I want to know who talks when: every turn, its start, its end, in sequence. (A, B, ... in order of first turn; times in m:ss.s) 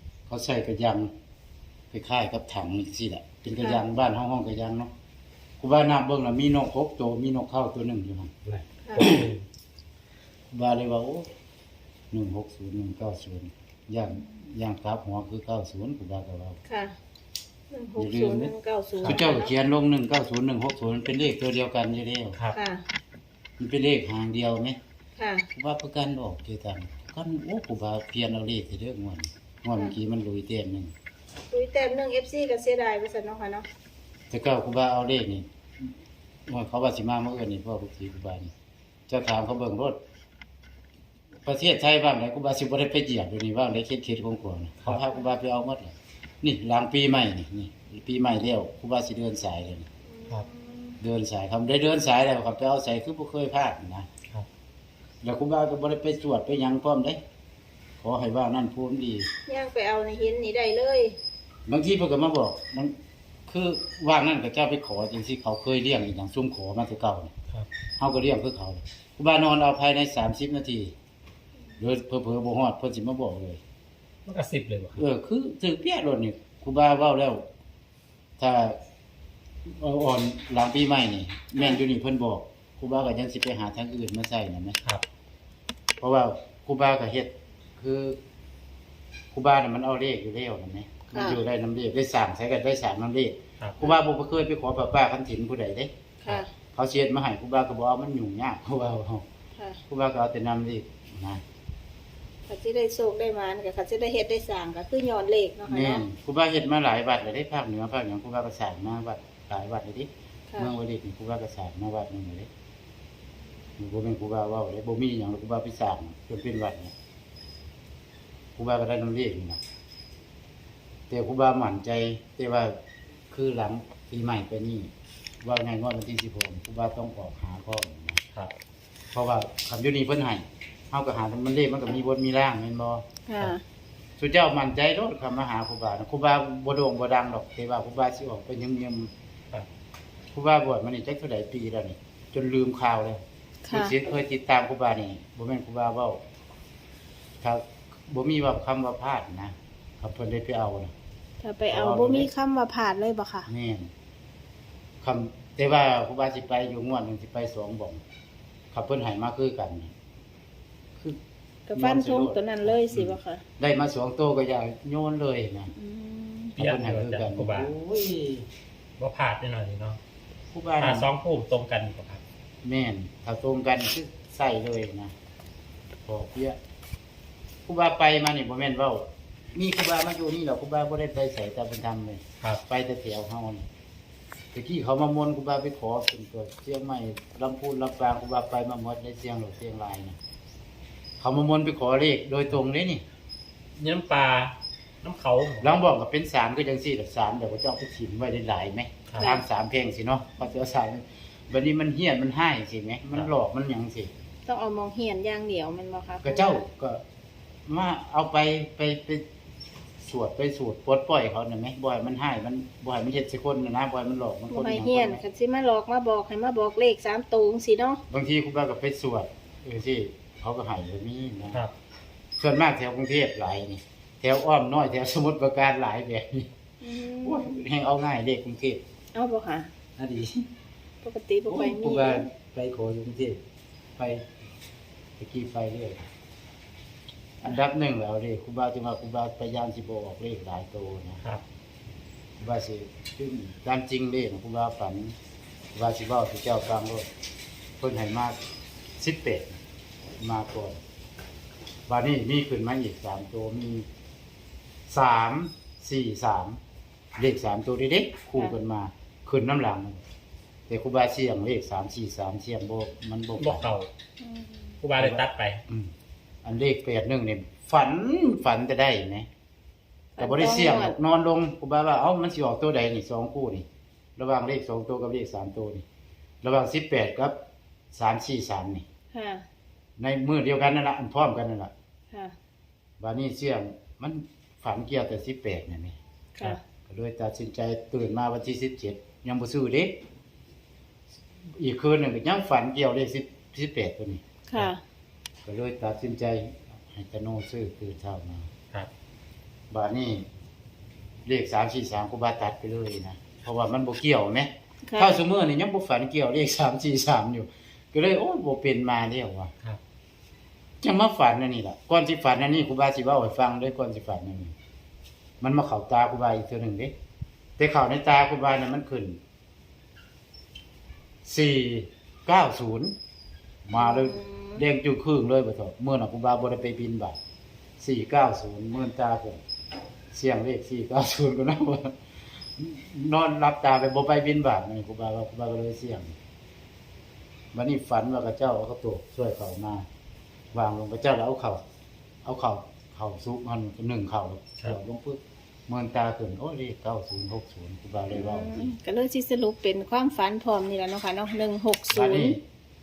0:00.3-0:01.1 A
0:01.9-0:04.9 A
0:05.6-0:08.4 A
0:08.8-0:09.1 B
0:08.9-0:09.4 A
0:09.0-0:09.4 C
0:10.5-0:11.3 A
0:12.1-0:16.6 A
0:16.7-0:16.9 B
0:17.7-0:19.5 B
0:18.0-0:18.5 A
0:19.0-0:19.3 C
0:19.0-0:22.4 A
0:22.5-0:22.8 B
0:23.6-0:24.8 A
0:25.2-0:25.4 B
0:25.5-0:30.9 A
0:31.5-0:33.6 B
0:34.3-0:35.4 A
0:36.5-0:38.5 A
0:39.1-0:40.0 A
0:41.4-0:49.9 A
0:50.2-0:51.0 B
0:51.0-0:54.1 A
0:55.2-0:57.2 A
0:58.0-0:59.3 A
0:59.5-1:01.2 B
1:01.6-1:02.9 A
1:03.4-1:07.3 A
1:08.0-1:10.9 A
1:11.8-1:13.6 A
1:14.2-1:15.0 C
1:15.0-1:17.4 A
1:18.4-1:18.8 A
1:19.6-1:24.8 A
1:26.0-1:28.2 A
1:29.3-1:35.9 A
1:31.1-1:31.4 B
1:36.2-1:36.5 B
1:36.7-1:39.2 A
1:39.9-1:41.4 A
1:42.5-1:46.0 B
1:45.7-1:52.5 A
1:53.8-1:56.9 A
1:58.6-1:59.6 A
2:01.1-2:02.8 A
2:03.3-2:04.9 A
2:05.4-2:08.2 A
2:09.1-2:13.5 A
2:13.2-2:13.6 B
2:14.2-2:19.1 A
2:20.3-2:26.2 A
2:23.6-2:23.9 B
2:27.4-2:30.9 A
2:31.4-2:33.5 B
2:31.7-2:32.3 A
2:33.5-2:33.9 A
2:35.0-2:38.0 A
2:38.7-2:39.9 A
2:41.7-2:43.4 B
2:41.7-2:45.7 A
2:45.8-2:46.5 B
2:46.6-2:47.7 C
2:46.6-2:48.5 A
2:49.0-2:50.0 C
2:50.5-2:51.1 A
2:50.8-2:52.2 C
2:52.6-2:55.1 A
2:56.0-2:56.6 A
2:57.7-3:03.6 A
3:04.5-3:10.2 A
3:11.2-3:13.0 A
3:13.8-3:15.7 C
3:15.6-3:24.1 A
3:19.2-3:19.4 B
3:24.4-3:26.6 B
3:26.2-3:27.0 A
3:27.7-3:29.2 A
3:30.0-3:35.2 A
3:34.5-3:38.0 B
3:38.1-3:41.6 A
3:42.4-3:46.5 A
3:46.8-3:47.6 B
3:47.2-3:48.8 A
3:49.1-3:49.7 B
3:50.0-3:50.5 A
3:51.0-3:52.3 B
3:51.5-3:53.4 A
3:54.0-3:54.2 A
3:55.2-3:56.1 A
3:57.4-4:01.2 A
4:02.4-4:05.1 A
4:05.7-4:07.1 A
4:07.8-4:08.4 A
4:09.0-4:09.6 A
4:10.2-4:10.8 A
4:11.9-4:13.8 A
4:14.9-4:16.6 A
4:17.1-4:20.0 A
4:20.7-4:23.8 A
4:23.3-4:23.9 C
4:24.2-4:24.8 B
4:24.8-4:25.6 C
4:25.0-4:25.9 A
4:26.4-4:29.3 A
4:30.2-4:31.0 B
4:30.2-4:33.6 A
4:34.2-4:35.8 A
4:36.4-4:37.3 A
4:37.9-4:38.8 A
4:39.1-4:39.4 B
4:40.0-4:41.7 A
4:43.0-4:45.9 A
4:46.9-4:49.9 A
4:51.6-4:54.2 A
4:54.5-4:54.8 B
4:55.4-4:58.5 A
4:59.7-5:00.2 A
5:01.2-5:09.5 A
5:04.8-5:05.2 B
5:10.8-5:14.5 A
5:15.4-5:16.9 A
5:17.6-5:19.2 A
5:21.2-5:22.9 A
5:23.6-5:27.2 A
5:23.7-5:24.6 B
5:27.8-5:29.4 A
5:30.1-5:32.0 A
5:32.6-5:36.1 A
5:37.5-5:39.8 A
5:40.5-5:41.6 A
5:42.2-5:48.7 A
5:48.1-5:52.4 B
5:51.9-5:52.4 A